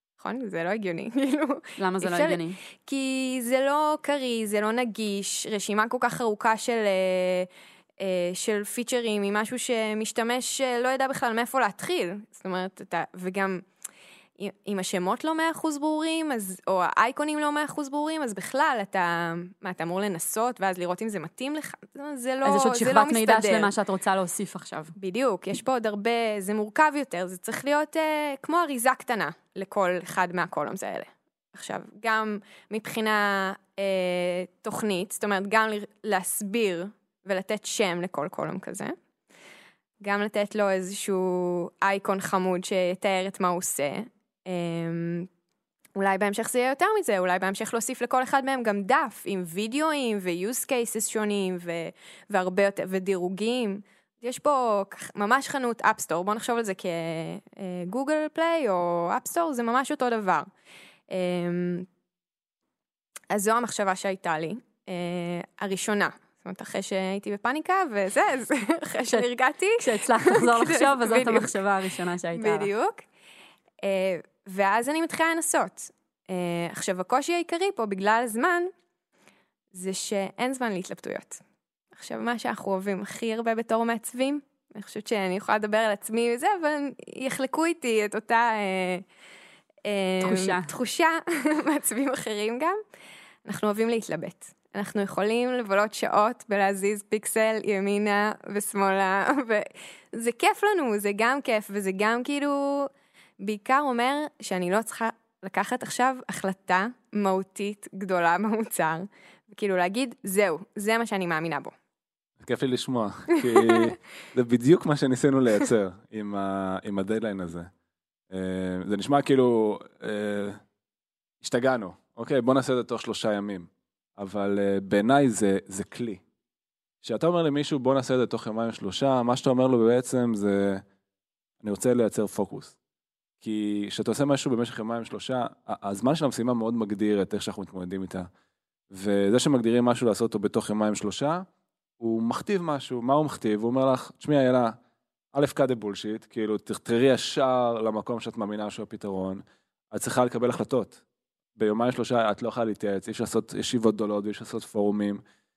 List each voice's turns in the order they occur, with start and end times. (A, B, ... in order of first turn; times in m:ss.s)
0:00.2-0:07.5 A
0:01.8-0:02.6 B
0:08.0-0:13.6 A
0:14.4-0:23.7 A
0:22.4-0:24.9 B
0:25.0-0:38.9 A
0:40.0-0:45.3 A
0:46.0-1:00.5 A
1:01.1-1:01.9 A
1:03.3-1:11.6 A
1:09.8-1:12.7 B
1:12.3-1:13.0 A
1:13.8-1:18.7 A
1:19.7-1:21.4 A
1:21.9-1:29.0 A
1:29.8-1:32.8 A
1:30.2-1:30.7 B
1:33.4-1:51.7 A
1:52.4-1:57.7 C
1:53.4-1:53.9 A
1:58.3-2:00.6 C
2:01.4-2:06.2 C
2:07.0-2:10.8 C
2:11.6-2:12.8 C
2:13.4-2:18.3 C
2:18.9-2:21.4 C
2:22.0-2:24.7 C
2:25.3-2:31.0 C
2:31.6-2:35.2 C